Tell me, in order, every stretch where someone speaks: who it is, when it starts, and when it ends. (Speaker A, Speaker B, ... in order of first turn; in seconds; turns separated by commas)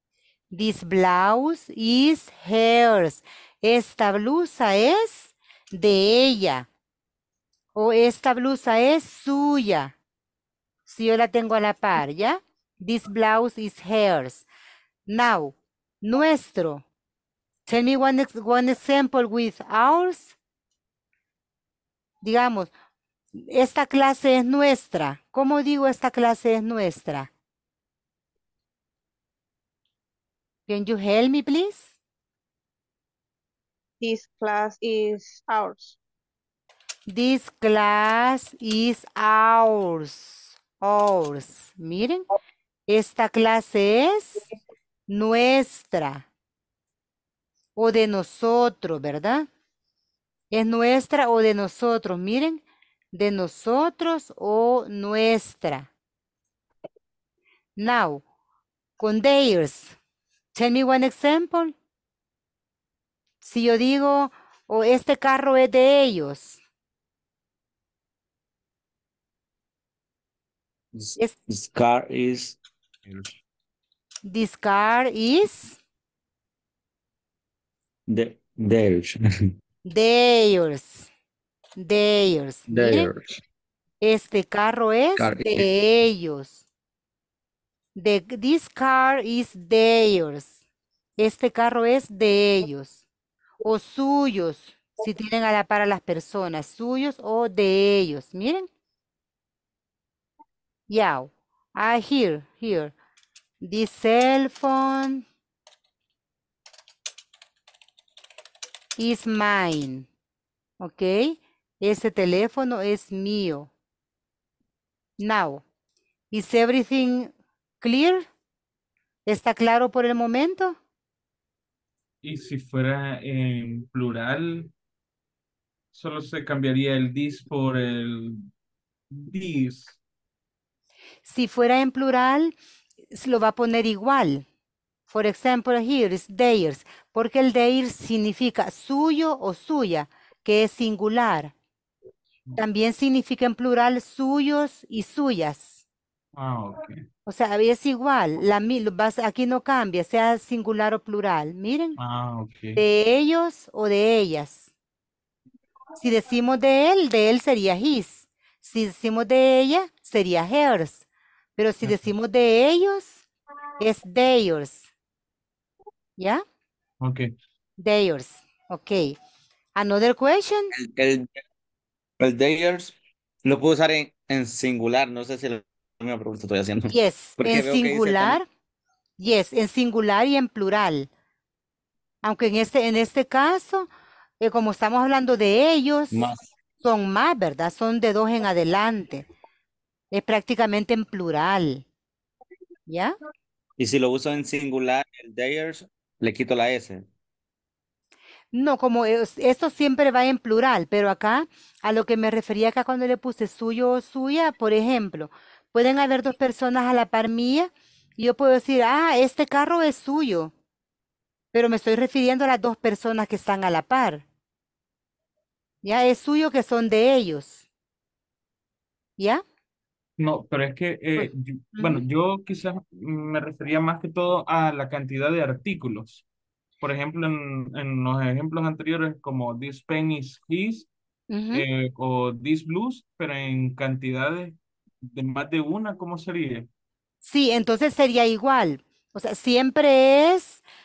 Speaker A: 0.5-6.7, Speaker A: 7.7-9.9, Speaker A: 10.9-14.5, Speaker A: 15.1-16.8, Speaker A: 17.6-20.4, Speaker A: 22.2-22.7, Speaker A: 23.3-27.3, Speaker A: 30.7-32.0, Speaker B: 34.0-36.0, Speaker A: 37.1-42.2, Speaker A: 42.9-44.4, Speaker A: 45.1-46.3, Speaker A: 47.8-49.5, Speaker A: 50.5-55.9, Speaker A: 57.8-58.2, Speaker A: 59.0-60.0, Speaker A: 60.5-61.7, Speaker A: 63.4-66.6, Speaker C: 70.9-72.6, Speaker A: 74.2-75.8, Speaker C: 78.1-79.5, Speaker A: 79.8-81.1, Speaker A: 81.8-83.1, Speaker C: 82.7-83.4, Speaker A: 84.0-86.6, Speaker C: 85.2-85.7, Speaker A: 88.0-90.6, Speaker A: 91.2-93.0, Speaker A: 93.6-98.7, Speaker A: 100.9-102.9, Speaker A: 103.6-105.2, Speaker A: 109.0-110.1, Speaker A: 110.8-113.7, Speaker A: 115.2-115.6, Speaker A: 116.3-118.3, Speaker A: 119.2-120.8, Speaker D: 122.2-124.7, Speaker D: 125.9-128.4, Speaker D: 129.1-130.0, Speaker A: 131.2-132.5, Speaker A: 133.1-134.4, Speaker A: 135.1-141.5, Speaker A: 142.6-145.8, Speaker D: 146.3-147.0, Speaker A: 147.2-152.0, Speaker D: 152.0-152.8, Speaker A: 152.8-154.7, Speaker A: 156.0-161.0, Speaker A: 161.6-163.2, Speaker A: 163.8-164.9, Speaker A: 166.2-166.4, Speaker D: 167.0-167.3, Speaker A: 167.8-169.1, Speaker A: 169.8-170.7, Speaker C: 170.7-171.3, Speaker C: 172.2-178.4, Speaker A: 176.9-178.5, Speaker A: 179.2-181.1, Speaker A: 182.2-183.9, Speaker A: 184.4-189.3, Speaker C: 186.1-186.4, Speaker A: 190.1-191.8, Speaker A: 192.9-193.2, Speaker C: 193.8-197.1, Speaker A: 198.5-210.5, Speaker A: 211.5-214.2, Speaker A: 215.8-217.6, Speaker A: 219.2-219.4, Speaker D: 220.2-226.2, Speaker A: 221.2-222.0, Speaker D: 226.8-230.9, Speaker A: 231.3-231.6, Speaker D: 231.5-236.7, Speaker A: 237.2-240.6